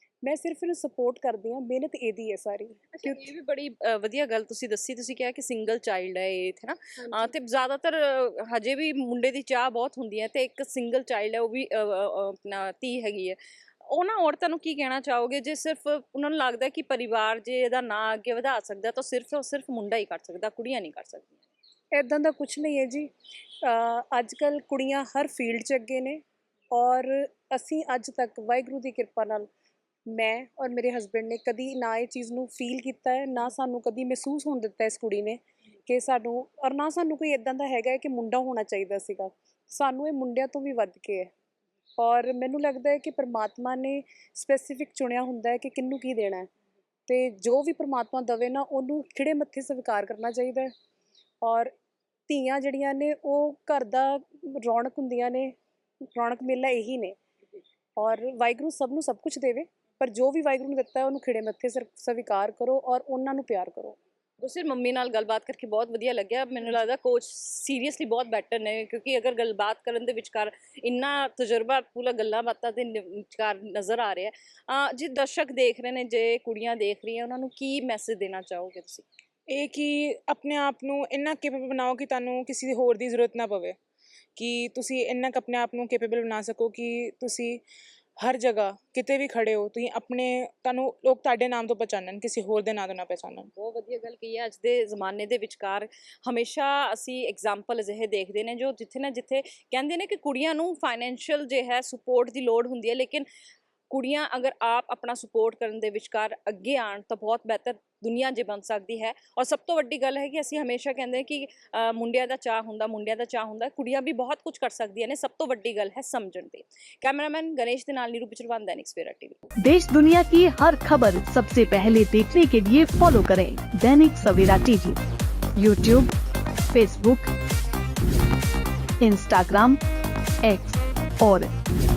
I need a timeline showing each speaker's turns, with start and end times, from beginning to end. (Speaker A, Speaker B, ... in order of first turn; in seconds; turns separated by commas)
Speaker A: 0.2-3.2, Speaker B: 2.9-21.4, Speaker A: 21.9-23.1, Speaker A: 23.6-29.5, Speaker A: 30.1-41.3, Speaker A: 42.0-46.5, Speaker A: 47.1-50.7, Speaker A: 51.4-51.7, Speaker A: 52.3-55.5, Speaker A: 56.1-57.1, Speaker A: 58.0-64.0, Speaker B: 64.4-79.0, Speaker C: 79.5-83.8, Speaker C: 84.4-87.6, Speaker C: 88.2-93.5, Speaker B: 93.5-103.3, Speaker B: 103.9-119.4, Speaker D: 119.6-125.0, Speaker D: 125.6-126.1, Speaker D: 126.7-127.3, Speaker D: 129.0-129.8, Speaker D: 130.4-131.5